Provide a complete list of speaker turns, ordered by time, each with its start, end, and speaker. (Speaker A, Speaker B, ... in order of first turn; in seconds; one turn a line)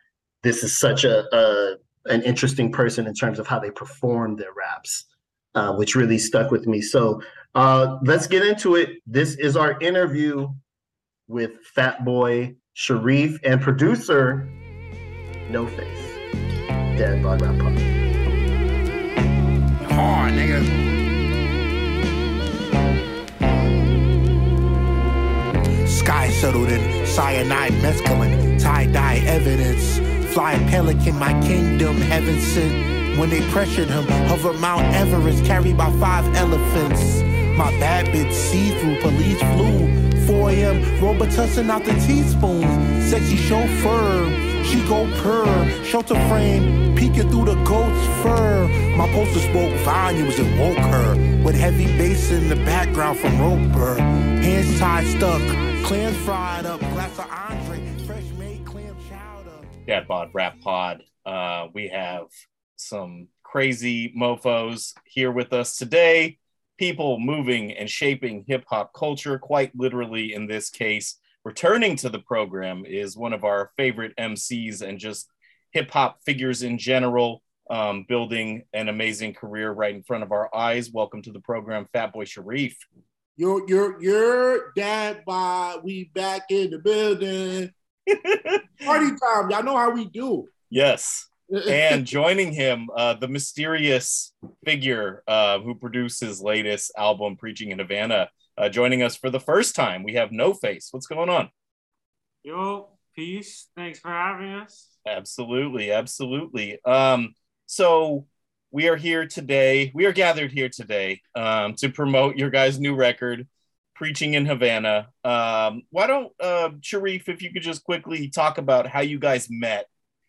Speaker A: 0.4-10.6
Speaker A: 11.3-14.6
Speaker A: 15.5-16.2
Speaker A: 16.9-17.9
Speaker B: 19.8-20.7
Speaker B: 25.9-59.7
Speaker C: 59.9-82.8
Speaker D: 83.4-87.7
Speaker C: 88.1-88.9
Speaker D: 88.8-90.5
Speaker C: 90.7-101.5
Speaker D: 91.5-92.0
Speaker E: 102.4-104.9
Speaker C: 105.0-119.9